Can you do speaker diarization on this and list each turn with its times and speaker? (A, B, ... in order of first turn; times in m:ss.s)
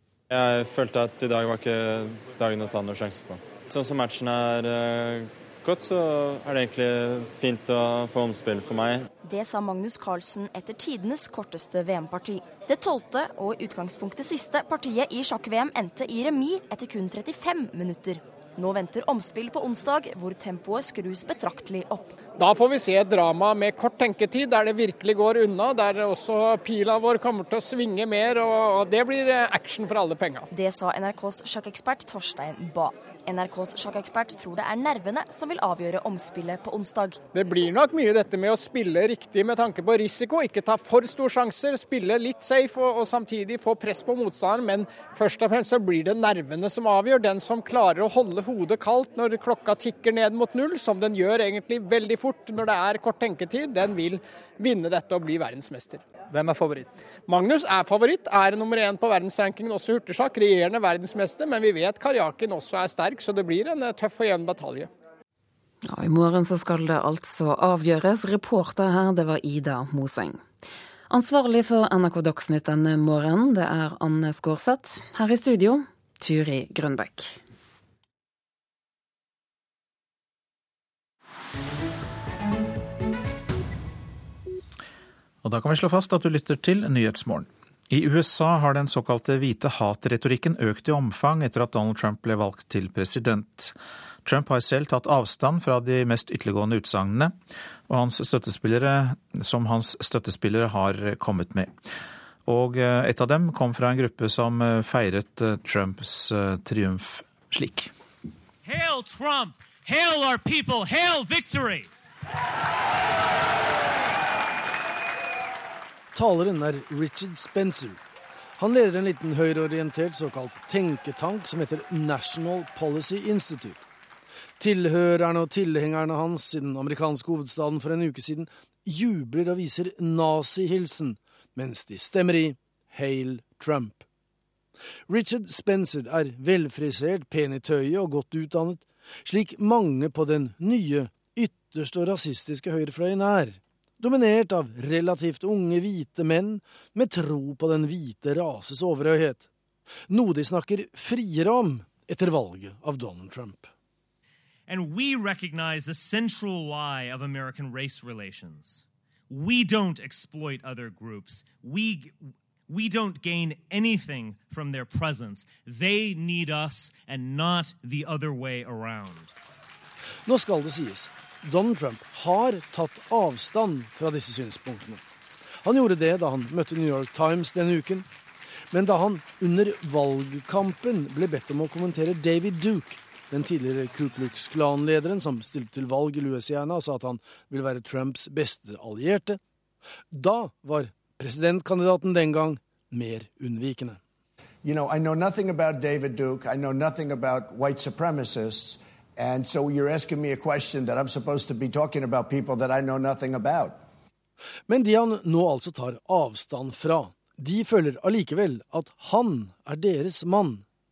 0:00.3-0:09.1 A
0:09.2-0:22.2 B
0:22.4-0:30.4 C
0:30.5-0:37.2 B
0:37.3-0:56.0 C
0:57.3-1:04.9 C
1:05.9-1:10.4 D
1:11.1-1:17.4 D
1:25.4-1:33.7 E
1:34.2-1:37.3 E
1:37.9-1:41.7 E
1:42.4-1:47.9 E
1:48.6-1:51.9 F
1:56.1-1:58.0 G
1:58.6-2:03.8 G
2:04.6-2:14.0 G
2:15.1-2:29.5 G
2:30.1-2:33.7 G
2:34.7-2:42.2 F
2:42.7-2:49.3 F
2:50.2-2:55.0 G
2:55.6-2:58.0 G
2:58.7-3:09.4 G
3:10.1-3:14.0 G
3:14.6-3:23.8 H
3:24.7-3:30.6 G